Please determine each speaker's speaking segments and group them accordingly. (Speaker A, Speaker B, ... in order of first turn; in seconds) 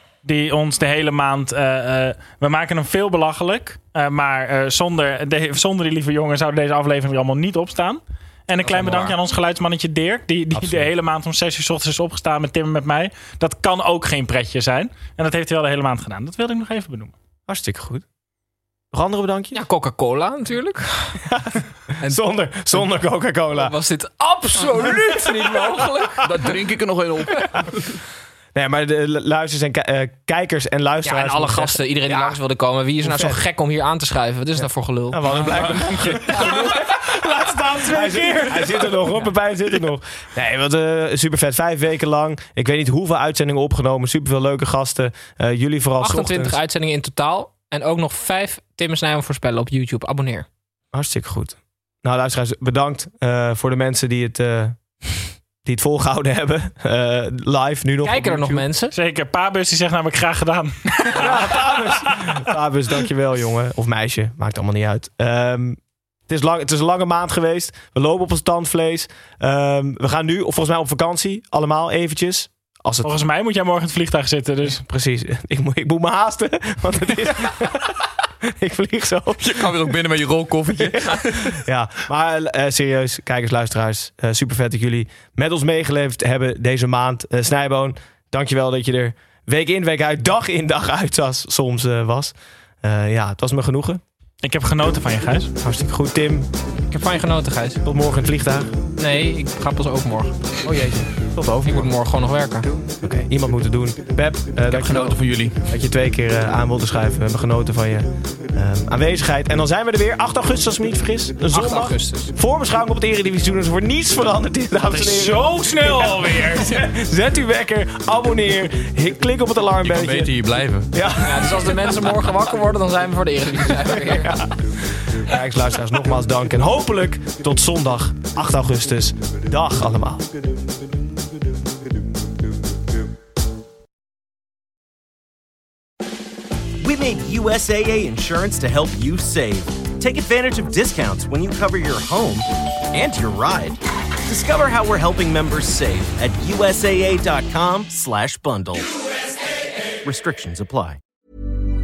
Speaker A: 0.2-17.1, 37.0-39.0, 58.9-62.4, 73.0-74.8, 94.4-95.5, 114.9-116.8
Speaker B: 8.6-9.2, 26.2-28.0, 35.3-36.8, 79.4-81.5, 104.7-105.6, 119.8-120.9
Speaker C: 10.6-10.9, 17.5-18.1, 18.9-19.6, 21.3-23.8, 28.6-32.4, 33.0-33.4, 35.1-36.7, 37.8-46.6, 50.9-55.0, 55.6-58.7, 61.1-73.2, 74.8-77.9, 78.5-79.4, 80.8-94.0, 95.6-96.5, 97.8-98.7, 100.6-101.9, 103.0-120.3, 120.9-122.1, 124.1-130.3
Speaker D: 19.5-21.3, 22.0-22.9, 23.5-26.3, 31.0-35.5, 46.0-50.5, 58.0-58.9, 96.9-97.8, 99.0-100.4, 101.7-102.7, 111.5-112.3, 121.2-124.4
Speaker E: 136.8-148.9, 150.0-151.0